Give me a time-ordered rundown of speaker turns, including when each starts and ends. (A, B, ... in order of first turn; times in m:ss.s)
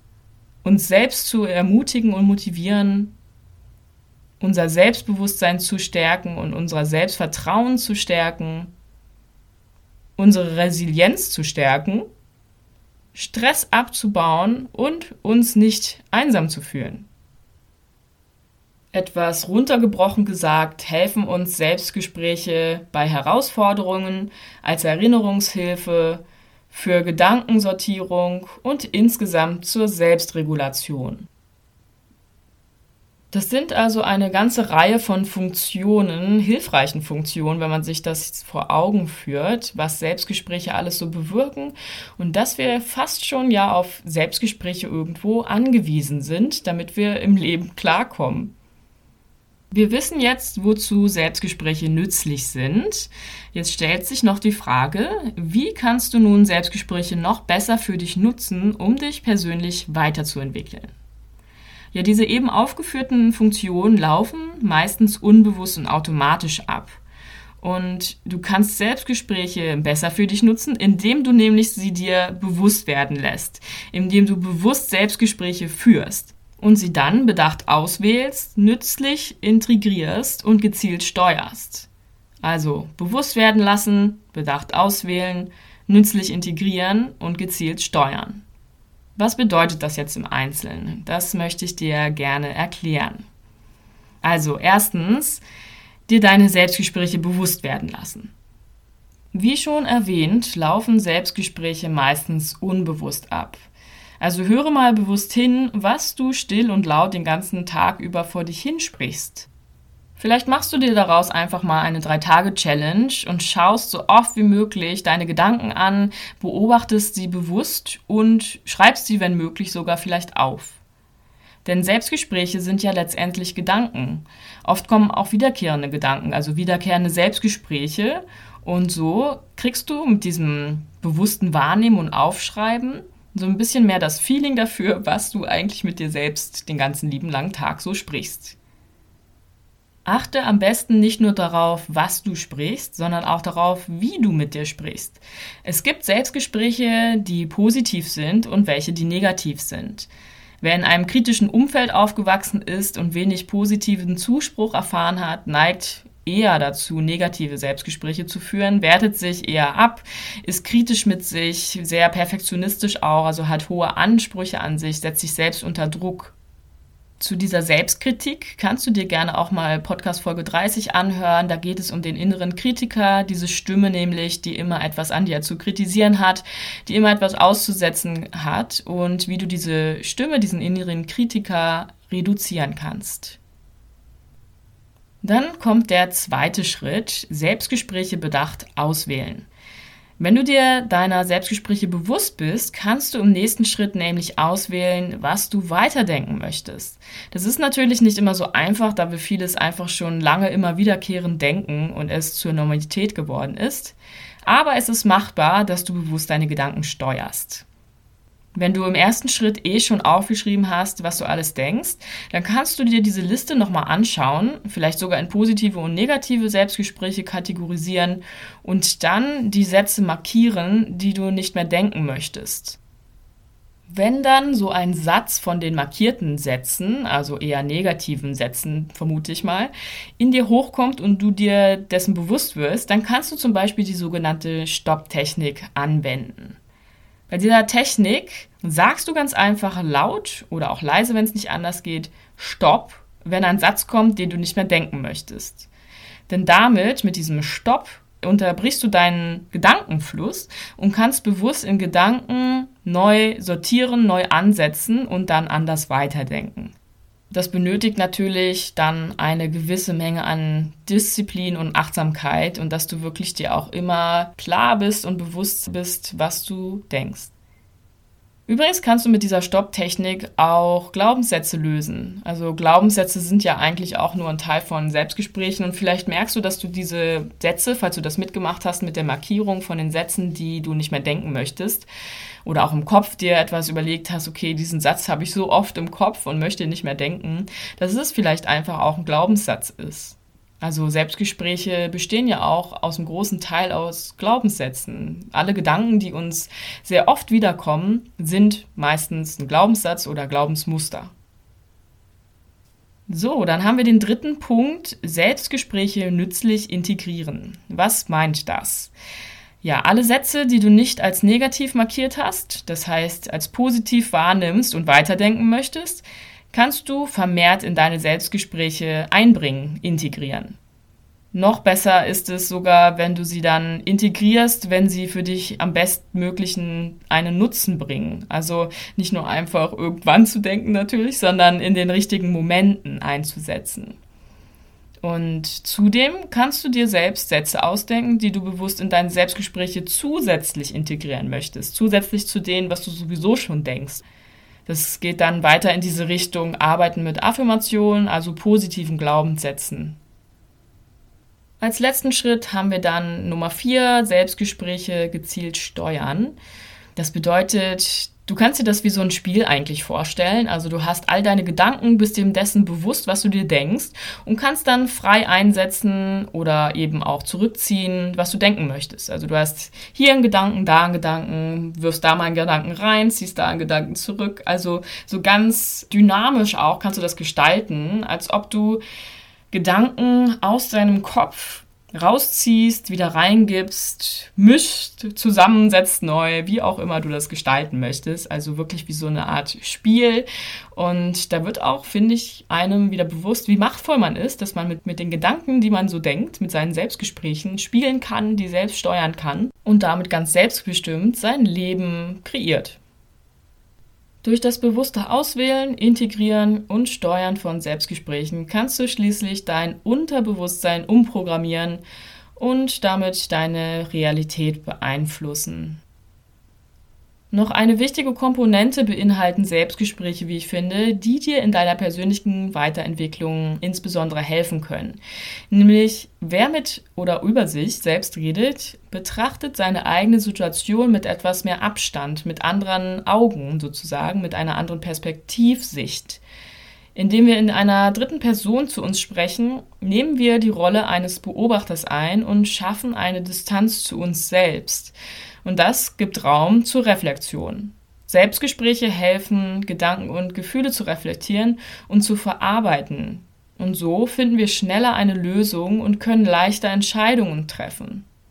0:00.6-0:03.1 A
0:04.4-0:08.7 A
0:10.2-0:12.1 A
0:13.2-0:17.1 A
0:18.9-0:31.3 A
0:33.3-0:48.5 A
0:49.7-1:00.9 A
1:01.9-1:07.0 A
1:07.6-1:21.9 A
1:22.4-1:28.4 A
1:29.2-1:33.2 A
1:34.2-1:35.4 A
1:36.1-1:38.3 A
1:39.3-1:49.5 A
1:50.2-2:00.8 A
2:01.6-2:18.6 A
2:20.0-2:30.1 A
2:30.6-2:46.4 A
2:47.2-3:03.4 A
3:05.2-3:09.5 A
3:10.2-3:27.6 A
3:28.6-3:42.8 A
3:43.9-3:56.6 A
3:57.3-4:05.7 A
4:06.3-4:16.8 A
4:17.3-4:27.3 A
4:28.5-4:41.9 A
4:42.4-5:01.1 A
5:03.1-5:08.9 A
5:09.6-5:20.6 A
5:21.3-5:34.0 A
5:35.0-5:44.0 A
5:44.7-5:50.0 A
5:51.6-5:56.4 A
5:57.0-6:18.8 A
6:19.5-6:42.8 A
6:44.2-6:51.8 A
6:52.4-6:55.8 A
6:57.3-7:05.0 A
7:05.5-7:16.2 A
7:17.0-7:38.0 A